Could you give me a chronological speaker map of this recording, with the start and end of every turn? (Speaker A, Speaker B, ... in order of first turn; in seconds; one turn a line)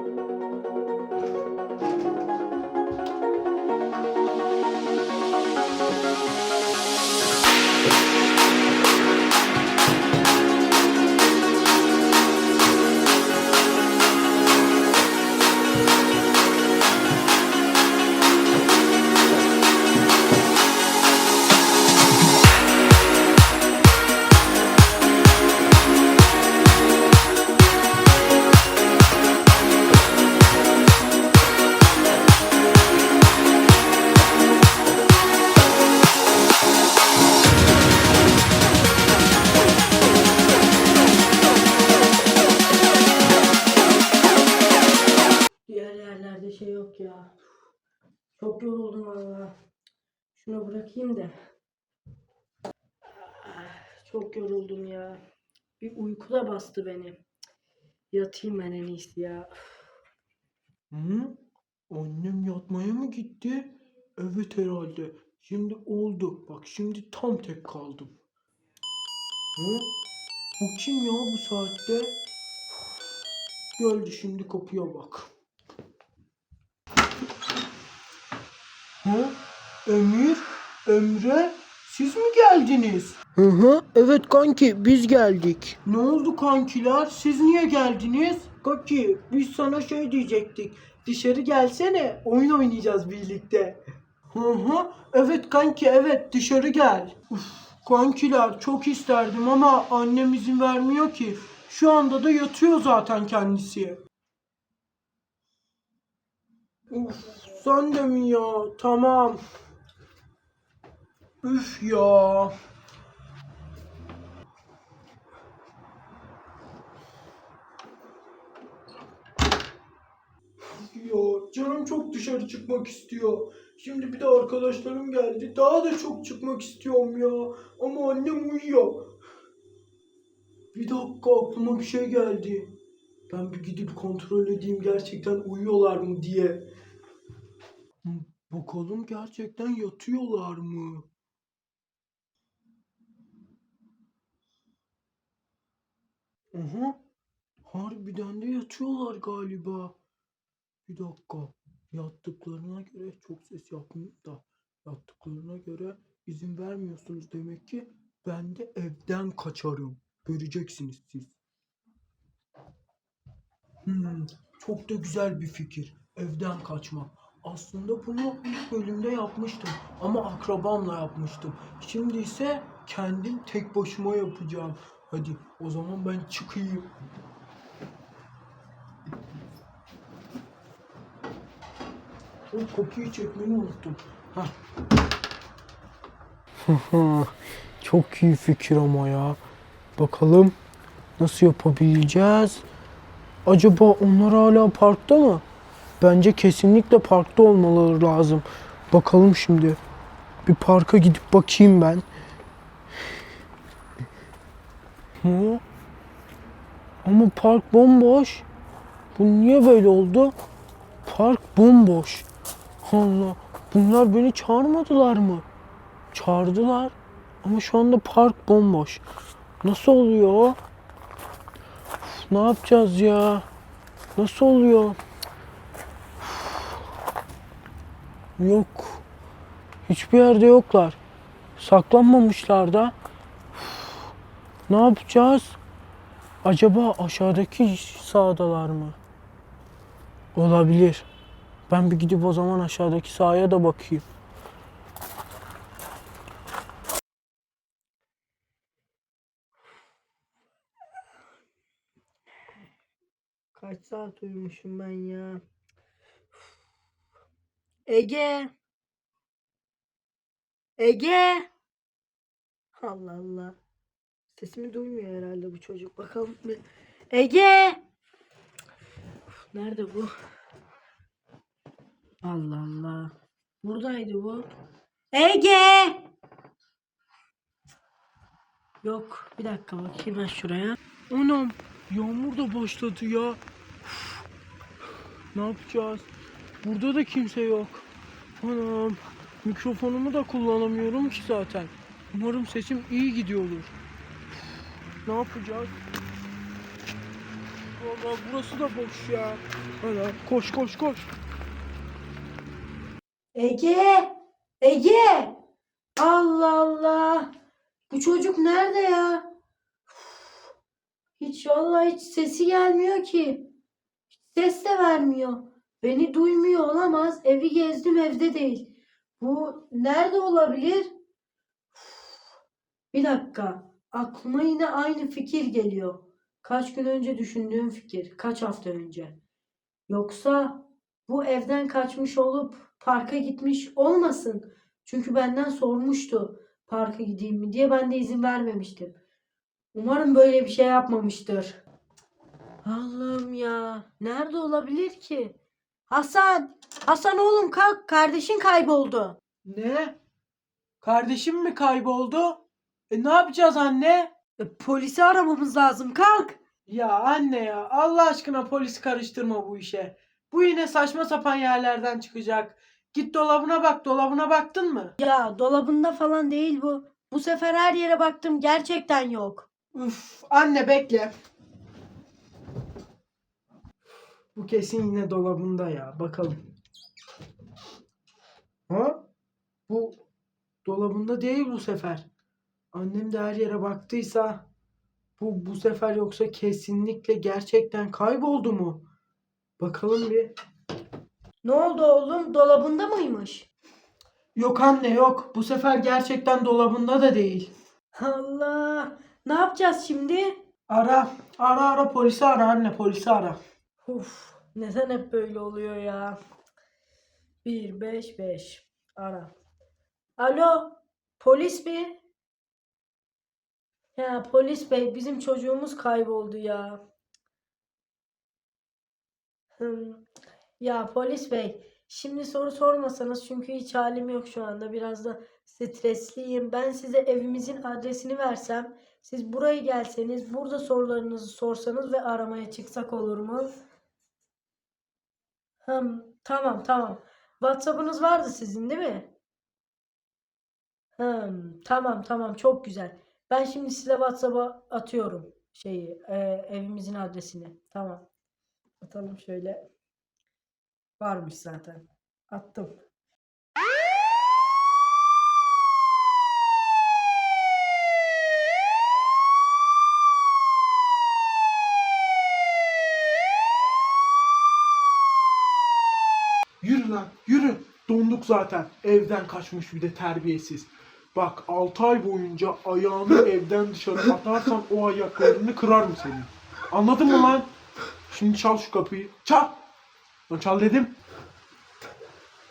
Speaker A: 45.7-46.8
Speaker B: 45.7-47.3
Speaker B: 48.4-49.5
Speaker A: 48.4-48.8
Speaker A: 50.4-51.2
Speaker B: 50.4-51.3
Speaker B: 53.2-55.2
Speaker B: 55.8-57.2
Speaker B: 58.1-59.5
Speaker A: 60.9-61.4
Speaker A: 61.9-68.1
Speaker A: 69.6-69.9
Speaker A: 70.6-72.2
Speaker A: 73.8-75.3
Speaker A: 79.0-104.0
Speaker A: 106.9-109.4
Speaker A: 111.4-112.5
Speaker A: 120.6-129.1
Speaker A: 130.7-132.8
Speaker A: 133.3-136.7
Speaker A: 138.0-141.1
Speaker A: 146.5-147.0
Speaker A: 147.7-149.9
Speaker A: 150.9-161.4
Speaker A: 163.8-176.9
Speaker A: 182.5-184.5
Speaker A: 186.7-189.4
Speaker A: 190.0-190.6
Speaker A: 191.2-192.6
Speaker A: 193.5-195.4
Speaker A: 196.0-199.8
Speaker A: 200.4-202.1
Speaker A: 205.2-205.6
Speaker A: 207.0-208.4
Speaker A: 209.2-210.3
Speaker A: 211.1-212.3
Speaker A: 212.8-215.4
Speaker A: 216.1-219.0
Speaker A: 219.6-220.6
Speaker A: 222.0-223.5
Speaker A: 224.2-225.0
Speaker A: 228.4-229.0
Speaker A: 229.9-231.0
Speaker A: 231.6-232.9
Speaker A: 234.7-235.6
Speaker A: 236.4-239.0
Speaker A: 240.3-241.1
Speaker A: 241.7-244.1
Speaker B: 253.6-255.4
Speaker A: 253.6-254.4
Speaker B: 257.9-258.5
Speaker B: 260.8-261.5
Speaker B: 262.8-263.6
Speaker A: 264.4-265.0
Speaker B: 264.4-266.6
Speaker B: 267.1-267.8
Speaker B: 269.5-270.1
Speaker B: 272.2-273.1
Speaker A: 272.3-273.0
Speaker B: 273.6-274.5
Speaker A: 273.6-274.4
Speaker B: 275.1-276.0
Speaker B: 278.8-280.5
Speaker A: 278.9-283.4
Speaker A: 285.3-286.1
Speaker A: 286.6-287.9
Speaker A: 288.4-293.7
Speaker A: 295.1-295.7
Speaker A: 297.8-301.1
Speaker B: 303.4-305.4
Speaker B: 306.0-307.3
Speaker B: 307.9-309.2
Speaker B: 311.2-313.5
Speaker B: 314.3-318.7
Speaker B: 319.2-320.9
Speaker B: 322.9-329.1
Speaker B: 329.9-338.9
Speaker B: 339.7-341.6
Speaker B: 342.6-345.4
Speaker B: 345.9-349.2
Speaker A: 349.4-349.9
Speaker A: 350.8-354.2
Speaker B: 354.4-356.4
Speaker A: 356.6-365.0
Speaker B: 365.0-369.5
Speaker A: 369.7-371.1
Speaker A: 374.4-376.4
Speaker A: 378.7-379.0
Speaker A: 379.7-380.0
Speaker A: 380.6-382.1
Speaker A: 382.7-384.5
Speaker A: 385.2-388.8
Speaker A: 389.6-390.3
Speaker B: 391.4-393.4
Speaker A: 394.4-397.5
Speaker B: 398.0-400.3
Speaker A: 399.2-400.1
Speaker A: 400.7-403.9
Speaker B: 403.9-406.2
Speaker B: 407.4-409.3
Speaker B: 410.2-412.0
Speaker B: 414.0-416.8
Speaker A: 416.1-416.5
Speaker B: 419.6-420.0
Speaker B: 420.6-433.5
Speaker A: 432.7-433.4
Speaker B: 435.6-439.1
Speaker A: 436.3-436.8
Speaker B: 441.0-448.0
Speaker A: 441.7-445.9
Speaker A: 446.6-448.0
Speaker A: 448.8-449.5
Speaker B: 449.0-449.6
Speaker B: 451.0-451.8
Speaker A: 451.0-452.7
Speaker B: 452.3-452.7
Speaker A: 466.6-470.6
Speaker C: 468.0-477.5
Speaker A: 471.3-474.7
Speaker C: 478.1-479.5
Speaker A: 478.7-479.5
Speaker C: 480.3-480.9